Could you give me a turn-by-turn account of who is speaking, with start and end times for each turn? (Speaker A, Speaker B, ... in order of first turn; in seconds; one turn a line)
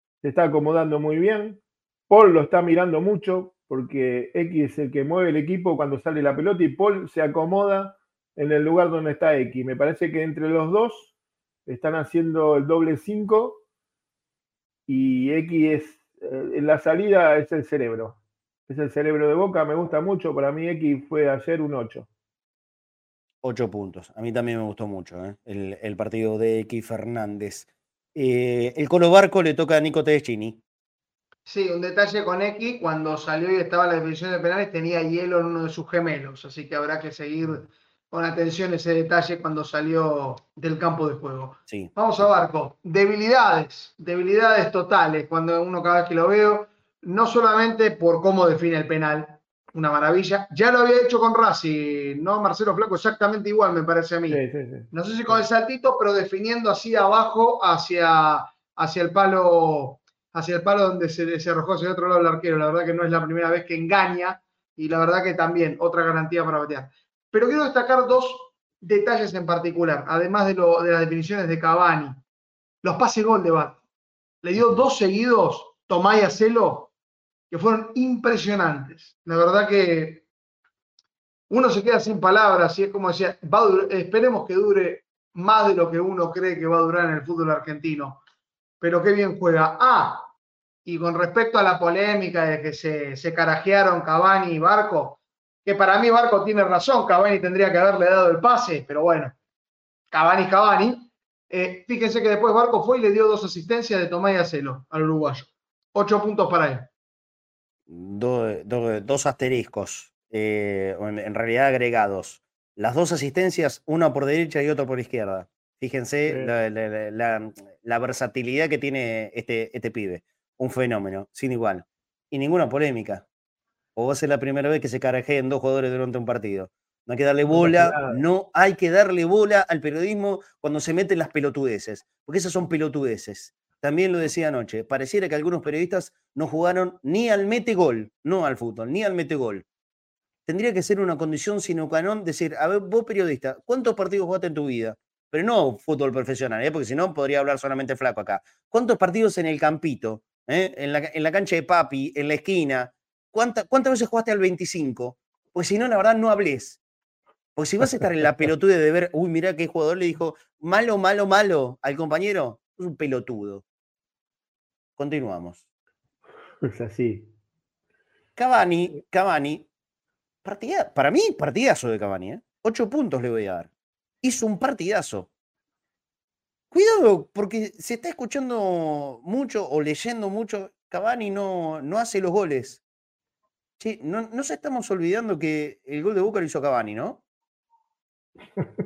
Speaker A: 0.2-11.1
Speaker A: 11.7-13.6
Speaker A: 14.9-22.1
Speaker B: 23.4-30.6
Speaker C: 31.5-72.2
Speaker A: 54.3-55.4
Speaker C: 72.8-73.8
Speaker C: 74.4-76.9
Speaker C: 77.5-80.2
Speaker C: 81.5-88.2
Speaker C: 88.8-90.3
Speaker C: 90.8-99.3
Speaker C: 100.1-106.9
Speaker B: 107.9-123.2
Speaker B: 124.0-139.7
Speaker A: 127.5-128.2
Speaker B: 140.5-156.8
Speaker B: 157.6-163.6
Speaker B: 165.0-165.6
Speaker A: 166.6-167.3
Speaker B: 168.4-169.7
Speaker B: 170.4-173.7
Speaker B: 174.2-175.3
Speaker B: 176.7-182.8
Speaker B: 183.8-187.2